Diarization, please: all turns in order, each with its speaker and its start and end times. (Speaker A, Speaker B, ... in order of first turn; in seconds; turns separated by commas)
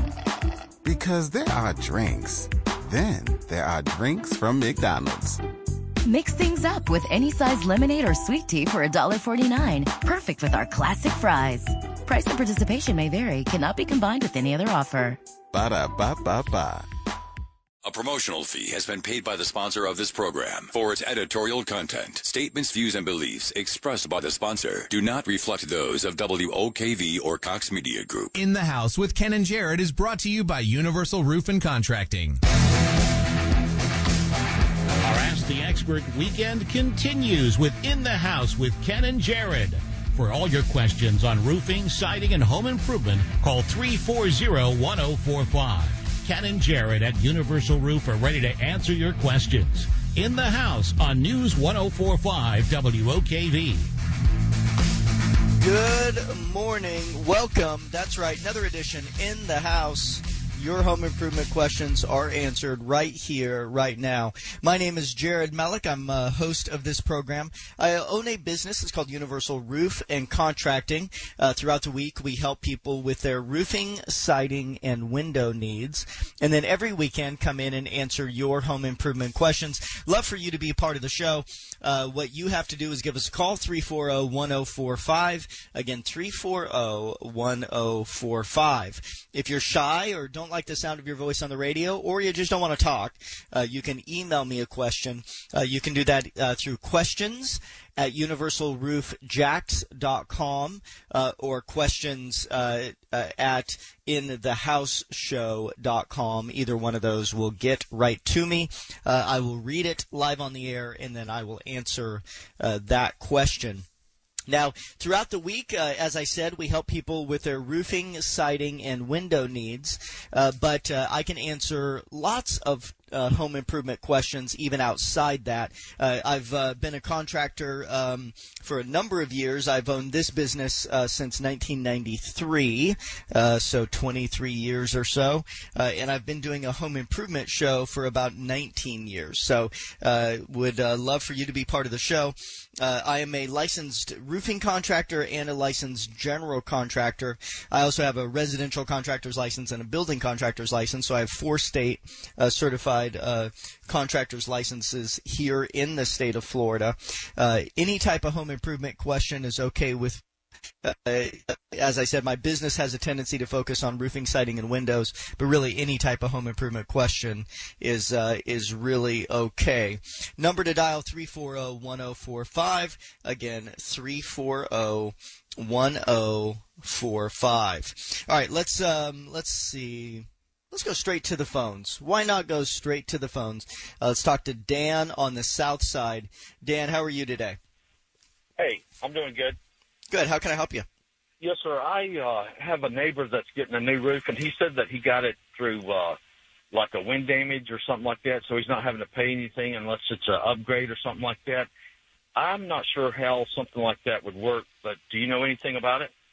Speaker A: 0.8-5.4, Speaker B: 6.0-15.2, Speaker A: 15.5-16.9, Speaker C: 17.8-28.3, Speaker D: 28.3-32.4, Speaker E: 35.0-53.9, Speaker F: 55.6-113.8, Speaker F: 114.5-160.2, Speaker F: 160.8-187.6, Speaker G: 188.6-189.6, Speaker F: 190.1-190.9, Speaker G: 191.4-196.2, Speaker G: 196.7-201.7, Speaker G: 202.3-206.1